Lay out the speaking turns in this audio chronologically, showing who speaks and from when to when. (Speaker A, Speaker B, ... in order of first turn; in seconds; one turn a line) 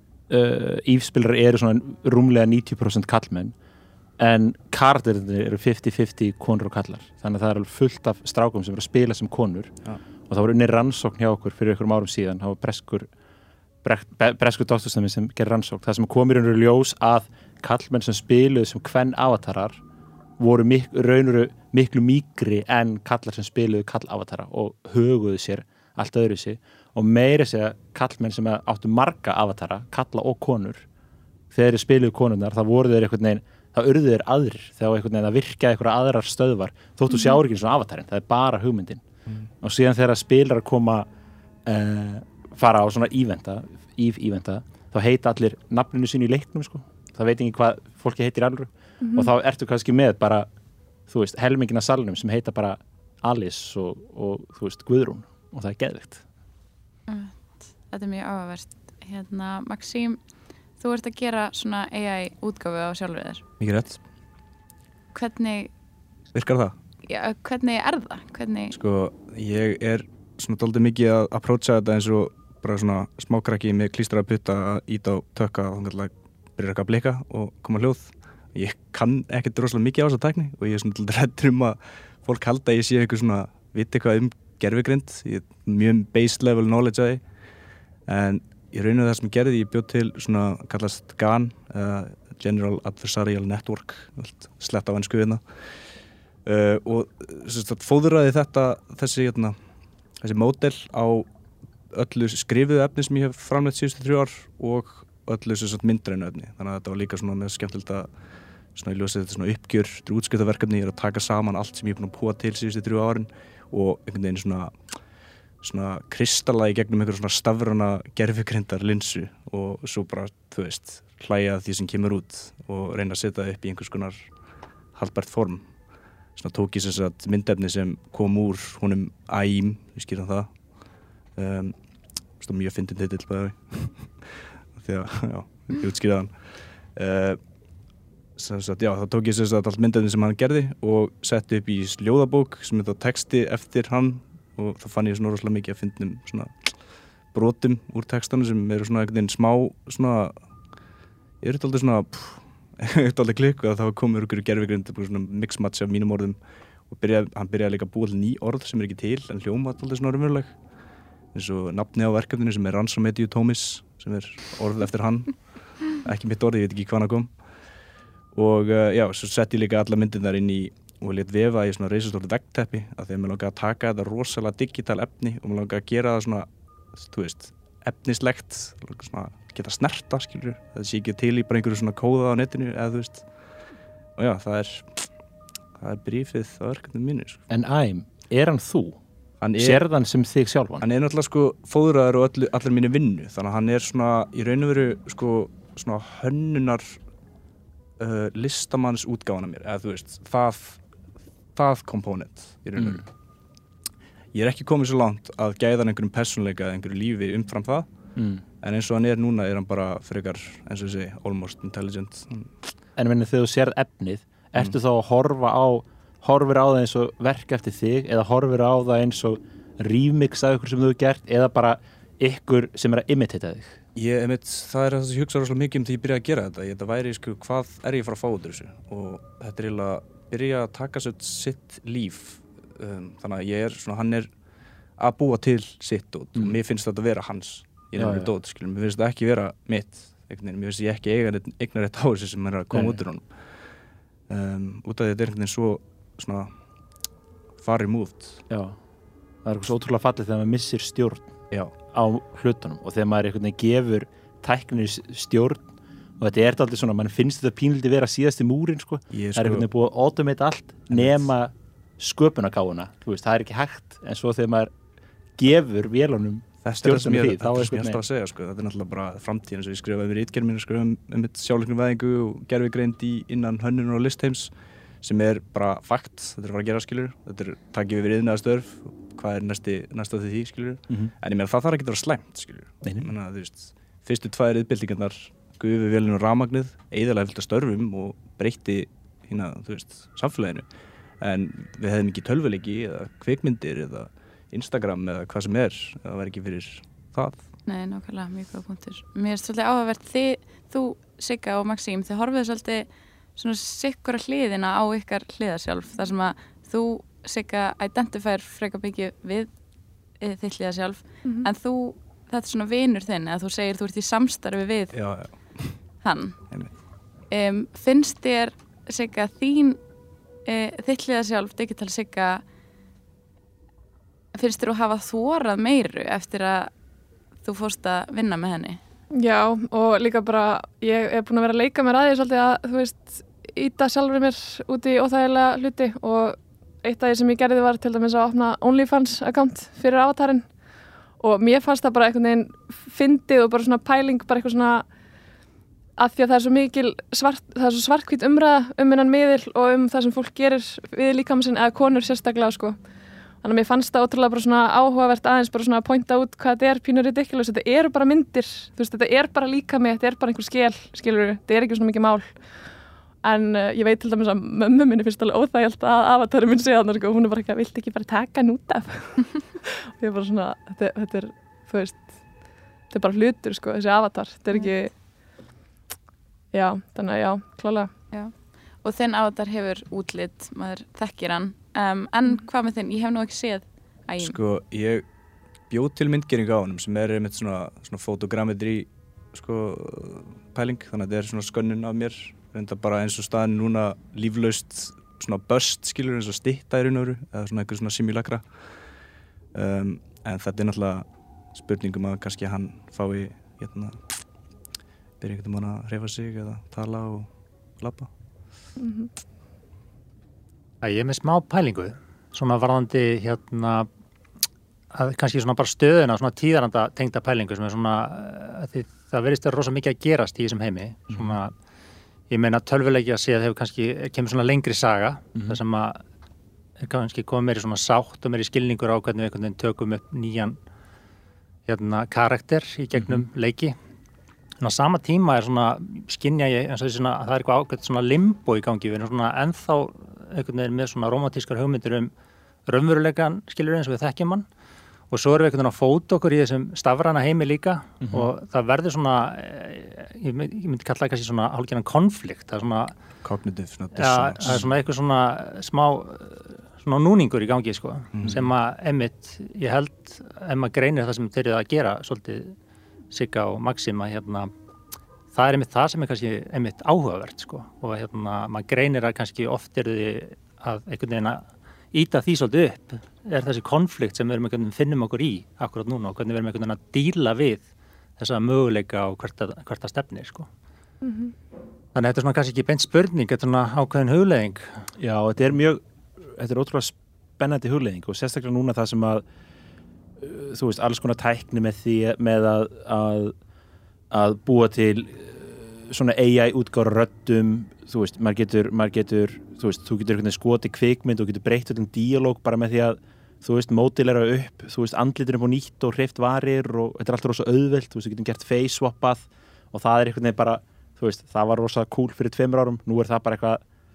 Speaker A: 0.3-3.5
Speaker A: 4.2-13.1
Speaker A: 13.8-19.8
Speaker A: 20.4-30.9
Speaker A: 31.5-39.0
Speaker A: 39.6-41.1
Speaker A: 41.6-50.5
Speaker B: 49.0-49.3
Speaker A: 51.1-56.2
Speaker C: 57.1-60.2
Speaker C: 60.8-63.4
Speaker D: 63.6-64.0
Speaker C: 65.1-65.7
Speaker D: 66.3-66.8
Speaker C: 67.1-68.8
Speaker D: 68.7-87.2
Speaker D: 88.1-95.4
Speaker D: 96.5-99.6
Speaker D: 100.2-101.3
Speaker D: 101.9-108.1
Speaker D: 108.7-114.7
Speaker D: 115.6-124.3
Speaker D: 124.9-125.7
Speaker D: 126.3-130.6
Speaker D: 131.3-131.8
Speaker D: 132.4-136.4
Speaker D: 136.9-137.4
Speaker D: 138.4-146.8
Speaker D: 147.3-150.3
Speaker D: 151.4-160.6
Speaker D: 161.3-167.4
Speaker D: 168.3-183.3
Speaker D: 184.2-185.1
Speaker D: 185.8-187.5
Speaker A: 187.5-189.0
Speaker D: 189.4-189.8
Speaker A: 189.6-190.8
Speaker D: 190.8-197.0
Speaker D: 198.0-200.8
Speaker D: 201.6-203.1
Speaker A: 202.8-203.0
Speaker D: 204.3-207.9
Speaker A: 208.2-208.4
Speaker D: 208.6-212.6
Speaker A: 213.0-223.8
Speaker D: 224.0-234.3
Speaker D: 235.0-243.3
Speaker A: 238.0-238.3
Speaker A: 242.7-243.0
Speaker D: 244.3-246.5
Speaker D: 247.6-248.4
Speaker A: 248.5-248.8
Speaker A: 249.4-264.7
Speaker D: 259.1-259.7
Speaker D: 260.9-261.3
Speaker A: 265.4-268.0
Speaker D: 266.6-290.7
Speaker A: 282.8-283.1
Speaker D: 291.2-297.5
Speaker C: 297.7-309.5
Speaker C: 310.2-315.0
Speaker B: 311.2-311.5
Speaker D: 314.9-315.9
Speaker C: 316.0-316.4
Speaker C: 317.3-319.8
Speaker C: 320.4-322.4
Speaker C: 324.3-326.7
Speaker C: 327.4-328.8
Speaker B: 329.1-340.5
Speaker B: 341.2-344.9
Speaker B: 346.0-352.8
Speaker B: 353.4-362.4
Speaker B: 363.2-372.2
Speaker B: 372.9-374.9
Speaker B: 376.5-377.9
Speaker C: 378.1-384.4
Speaker D: 384.2-385.1
Speaker D: 385.7-398.5
Speaker D: 399.5-404.1
Speaker D: 405.2-408.1
Speaker B: 408.8-409.1
Speaker E: 410.8-413.9
Speaker E: 414.9-421.5
Speaker E: 422.3-426.0
Speaker E: 426.8-430.6
Speaker E: 431.7-433.8
Speaker E: 434.6-442.1
Speaker E: 442.7-444.4
Speaker E: 445.1-452.9
Speaker D: 453.2-454.6
Speaker E: 454.0-462.6
Speaker D: 458.1-458.5
Speaker E: 463.1-464.5
Speaker E: 465.3-480.5
Speaker B: 481.0-481.3
Speaker E: 481.9-484.8
Speaker A: 485.0-489.2
Speaker A: 490.2-493.4
Speaker A: 494.1-513.6